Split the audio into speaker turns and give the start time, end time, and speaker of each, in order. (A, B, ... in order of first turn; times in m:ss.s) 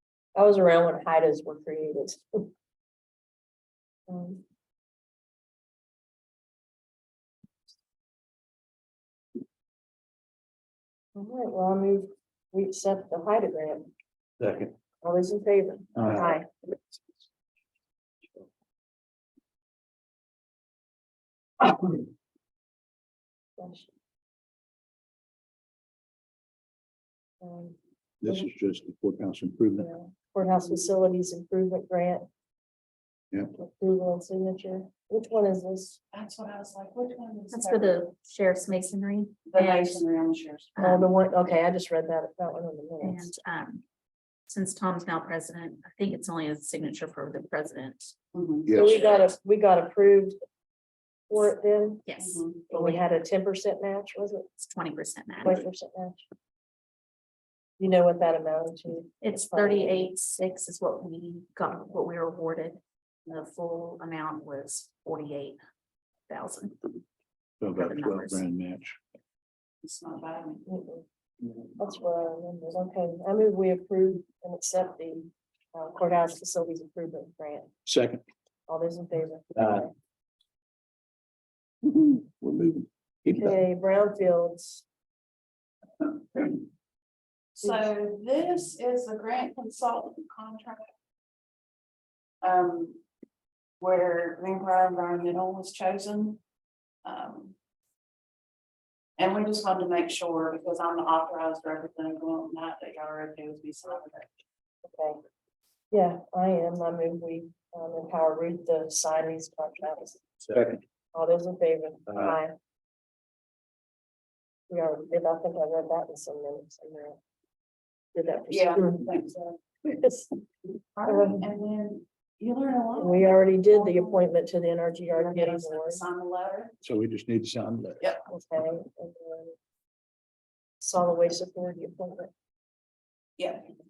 0:00.3-0:02.5 A
0:04.1-0:04.4 A
0:11.1-0:13.9 A
0:14.4-0:14.7 B
0:15.0-0:16.5 A
0:16.0-0:16.3 B
0:23.6-0:23.9 A
0:27.4-0:27.8 A
0:28.2-0:29.9 B
0:29.8-0:32.2 A
0:33.6-0:36.0 A
0:36.1-0:38.1 C
0:37.5-0:40.0 D
0:39.5-0:41.0 C
0:40.7-0:41.0 D
0:40.8-0:43.3 A
0:43.0-0:43.8 D
0:44.5-0:48.1 D
0:48.3-0:48.7 C
0:48.7-0:49.0 B
0:48.7-0:50.4 A
0:51.3-0:52.0 A
0:52.0-0:53.0 D
0:52.2-0:52.6 C
0:52.7-0:54.5 A
0:54.6-0:55.6 D
0:55.4-0:56.2 A
0:57.8-1:00.1 A
0:59.2-1:05.6 D
1:06.3-1:07.0 D
1:07.6-1:09.0 B
1:07.7-1:08.4 D
1:09.8-1:10.6 C
1:10.6-1:11.0 A
1:11.8-1:17.7 A
1:17.8-1:18.2 B
1:18.7-1:19.9 A
1:21.8-1:23.5 B
1:23.3-1:24.8 A
1:27.6-1:30.9 C
1:32.4-1:33.0 C
1:33.8-1:36.4 C
1:37.0-1:37.5 C
1:39.2-1:44.3 C
1:44.9-1:45.2 A
1:45.9-1:50.2 A
1:50.5-1:50.8 B
1:51.1-1:52.5 A
1:54.7-1:57.2 A
1:58.1-1:59.0 A
1:58.5-1:59.6 C
1:59.8-2:00.3 A
2:01.0-2:04.2 C
2:01.0-2:01.4 A
2:03.0-2:06.0 A
2:05.1-2:06.7 C
2:06.8-2:08.0 B
2:08.3-2:09.5 A
2:10.8-2:12.3 A
2:13.4-2:13.7 C